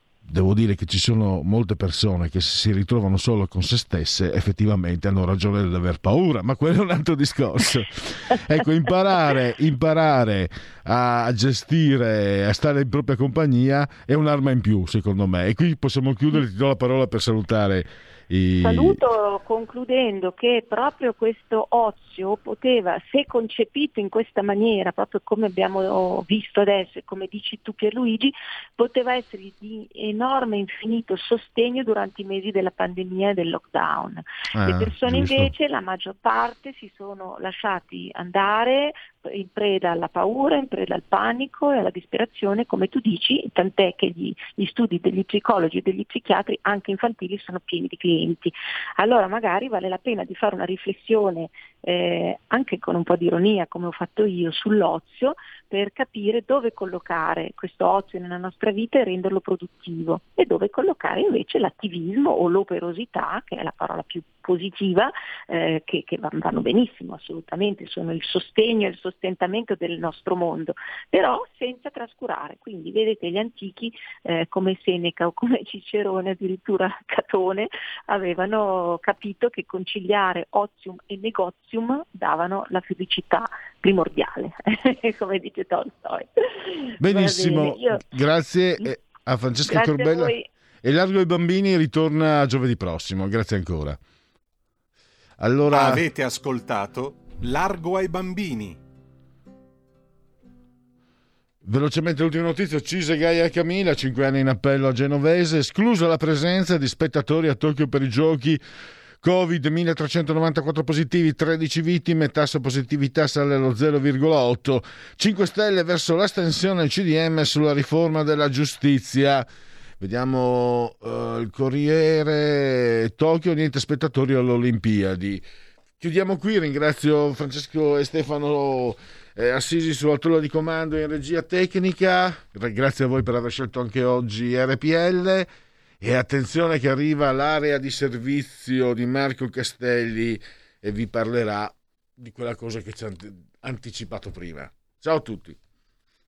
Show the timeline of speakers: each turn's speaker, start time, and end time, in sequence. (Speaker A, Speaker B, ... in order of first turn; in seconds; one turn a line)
Speaker A: 0.2-19.0
Speaker B: 18.6-88.0
Speaker A: 34.5-35.5
Speaker A: 87.0-90.3
Speaker B: 89.6-90.5
Speaker A: 90.8-94.0
Speaker A: 95.4-96.0
Speaker C: 95.7-98.8
Speaker A: 101.6-108.6
Speaker A: 109.2-119.5
Speaker A: 120.0-125.4
Speaker A: 126.0-135.5
Speaker A: 136.0-145.6